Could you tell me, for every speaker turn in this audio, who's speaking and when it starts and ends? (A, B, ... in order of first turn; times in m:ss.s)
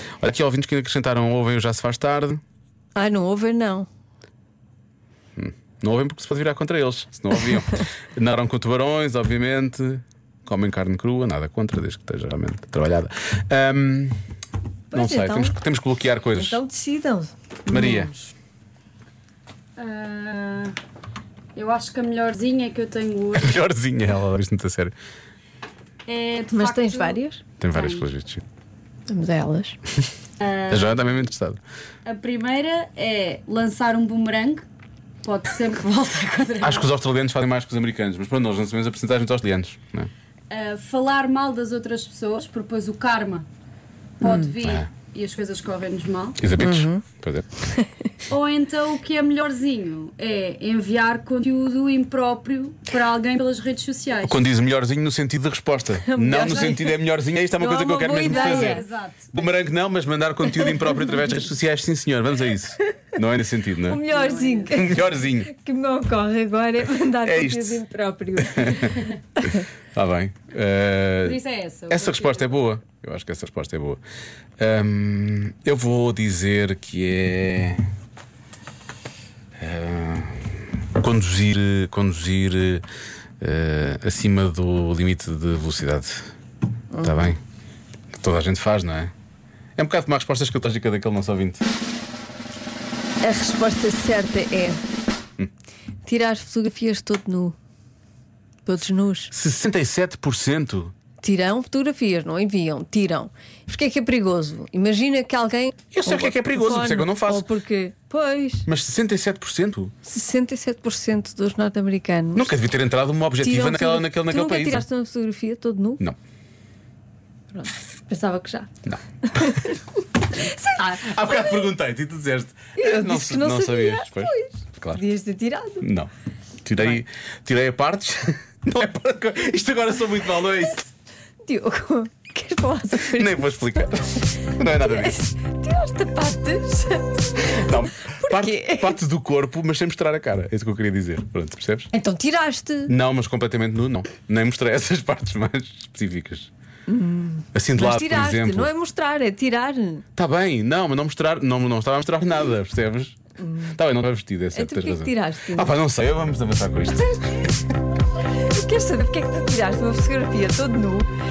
0:00.2-0:02.4 A
0:02.9-0:03.9 B
0:05.4-0:14.2 A
0:14.9-0:15.5 B
0:14.9-0:16.6 A
0:16.4-0:18.3 B
0:17.7-0:18.1 A
0:19.8-0:20.7 C
0:21.5-0:23.6 C
0:23.3-0:24.9 A
0:26.1-0:27.2 C
0:26.5-0:27.4 B
0:27.6-0:28.4 A
0:27.7-0:28.0 C
0:29.1-0:29.8 B
0:30.4-0:31.0 C
0:30.7-0:31.6 A
0:32.0-0:34.6 C
0:35.2-0:36.9 C
0:36.6-0:40.1 A
0:40.5-0:43.5 C
0:44.2-0:46.4 C
0:44.6-0:44.9 A
0:46.4-0:47.4 A
0:46.6-0:47.0 B
0:47.6-0:47.9 B
0:48.3-0:54.4 C
0:54.2-1:04.0 A
0:56.0-0:57.0 B
0:57.6-0:58.8 B
0:58.2-0:59.5 C
1:00.6-1:01.1 B
1:03.8-1:09.2 B
1:04.1-1:04.9 C
1:04.7-1:05.5 A
1:07.0-1:07.8 A
1:08.4-1:14.0 A
1:11.2-1:12.6 C
1:14.6-1:17.8 A
1:19.6-1:22.8 A
1:23.4-1:26.2 A
1:26.9-1:27.4 B
1:27.0-1:27.4 A
1:28.1-1:29.1 A
1:29.8-1:31.6 A
1:33.2-1:34.8 B
1:36.0-1:37.6 B
1:38.6-1:39.3 B
1:39.3-1:40.9 A
1:41.2-1:48.7 B
1:45.9-1:47.5 A
1:48.6-1:49.9 A
1:50.0-1:52.5 B
1:52.3-1:54.8 A
1:53.4-1:56.0 B
1:57.5-1:58.7 B
1:58.8-1:59.6 A
1:59.2-2:01.3 B
2:01.0-2:05.0 A
2:02.8-2:05.9 B
2:05.8-2:06.1 A
2:06.6-2:10.9 A
2:11.4-2:13.5 B
2:12.9-2:15.2 A
2:14.5-2:19.0 B
2:17.4-2:21.9 A
2:21.9-2:22.9 B
2:22.9-2:26.5 A
2:26.9-2:30.0 B
2:27.5-2:28.7 A
2:30.2-2:37.6 A
2:33.4-2:33.7 B
2:34.5-2:35.7 B
2:38.5-2:41.1 B